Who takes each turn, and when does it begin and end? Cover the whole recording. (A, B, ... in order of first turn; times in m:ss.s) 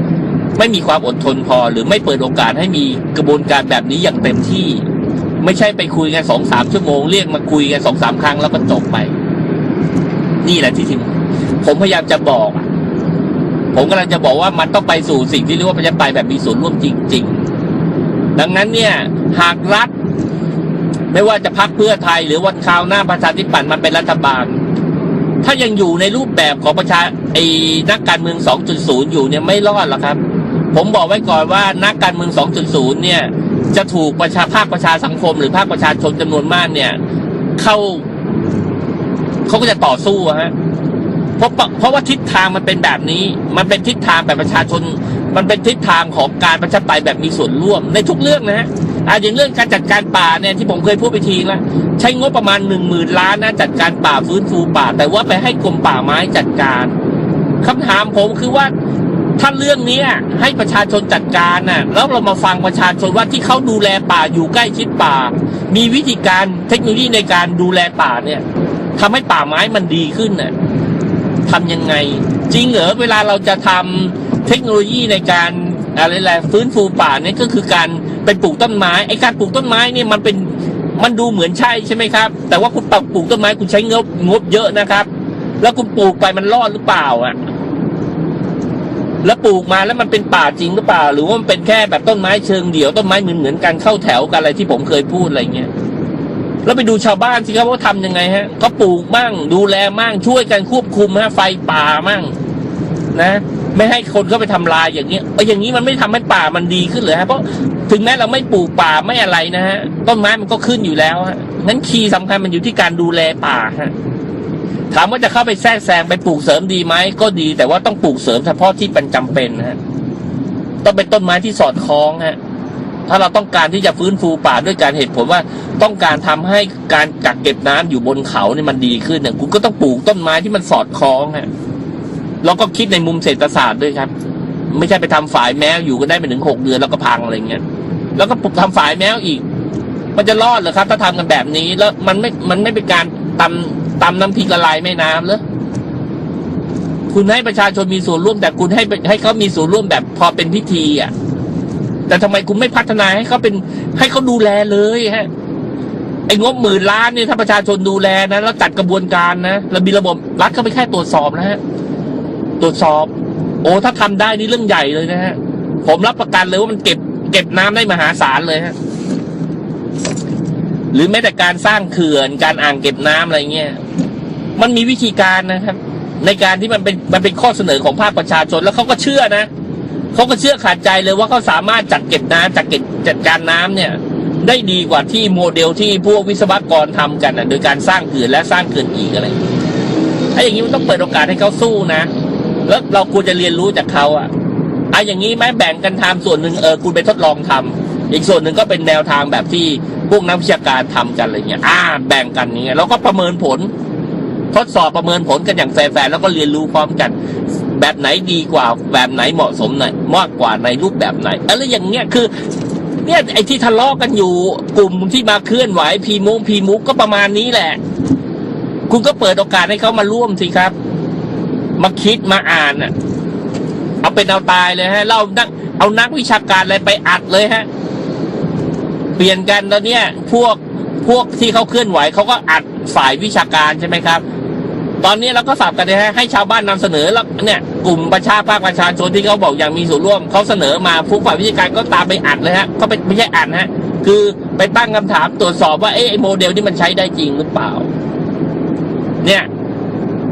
0:00.6-0:04.9 A
0:05.4-0:09.1 A
0:10.4-0:12.7 A
0:13.7-0:17.4 A
0:18.4-0:19.9 A
0:21.1-0:24.6 A
0:25.4-0:30.2 A
0:30.7-0:37.0 A
0:37.6-0:38.1 A
0:39.5-0:40.5 A
0:41.4-0:57.0 A
0:57.6-0:58.7 A
0:59.4-1:08.4 A
1:09.0-1:10.5 A
1:11.5-1:25.1 A
1:25.6-1:27.4 A
1:29.2-1:35.7 A
1:36.6-1:42.4 A
1:43.1-1:53.9 A
1:54.9-1:59.8 A
2:00.8-2:02.4 A
2:03.1-2:11.5 A
2:12.4-2:14.1 A
2:14.7-2:17.6 A
2:18.2-2:19.4 A
2:20.2-2:25.4 A
2:27.1-2:31.1 A
2:32.1-2:35.3 A
2:36.3-2:41.6 A
2:42.6-2:43.1 A
2:43.6-2:48.8 A
2:50.9-2:53.8 A
2:54.6-2:59.5 A
3:00.1-3:09.4 A
3:10.4-3:12.1 A
3:12.7-3:14.3 A
3:14.9-3:23.7 A
3:24.5-3:27.2 A
3:27.7-3:32.3 A
3:33.0-3:37.8 A
3:38.9-3:40.8 A
3:41.8-3:42.9 A
3:44.0-3:47.7 A
3:49.2-3:54.2 A
3:55.0-4:07.9 A
4:09.2-4:09.5 A